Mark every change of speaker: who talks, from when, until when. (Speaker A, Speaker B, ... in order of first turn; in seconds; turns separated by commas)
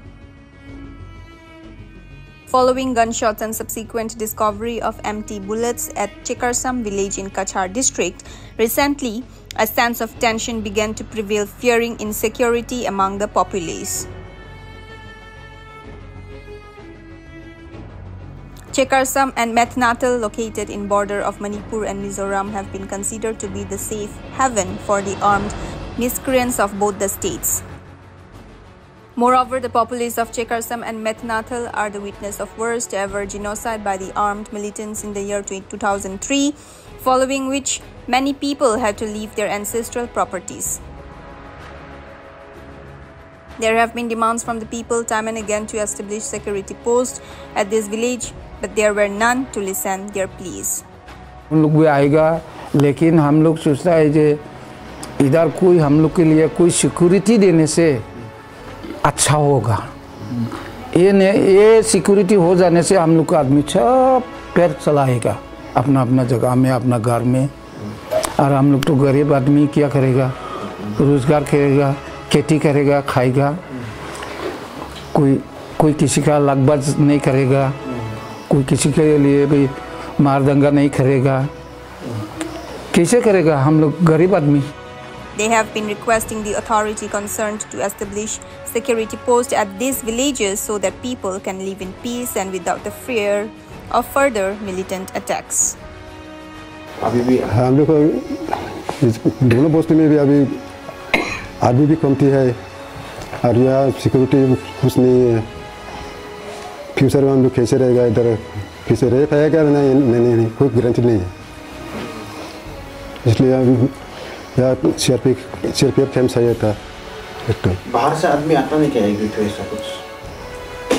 Speaker A: 2.5-14.1, Speaker A: 18.7-27.6, Speaker A: 29.2-40.8, Speaker A: 43.6-50.8, Speaker B: 51.5-54.4, Speaker B: 55.2-58.0, Speaker B: 59.0-67.5, Speaker B: 68.4-70.3, Speaker B: 70.9-73.6, Speaker B: 75.1-77.8, Speaker B: 78.5-81.5, Speaker B: 82.9-84.7, Speaker A: 85.3-95.8, Speaker C: 97.0-97.5, Speaker D: 97.5-100.6, Speaker D: 101.6-102.6, Speaker D: 103.4-105.5, Speaker D: 106.9-111.3, Speaker D: 113.2-113.9, Speaker D: 114.6-116.8, Speaker D: 117.5-117.8, Speaker C: 117.9-120.0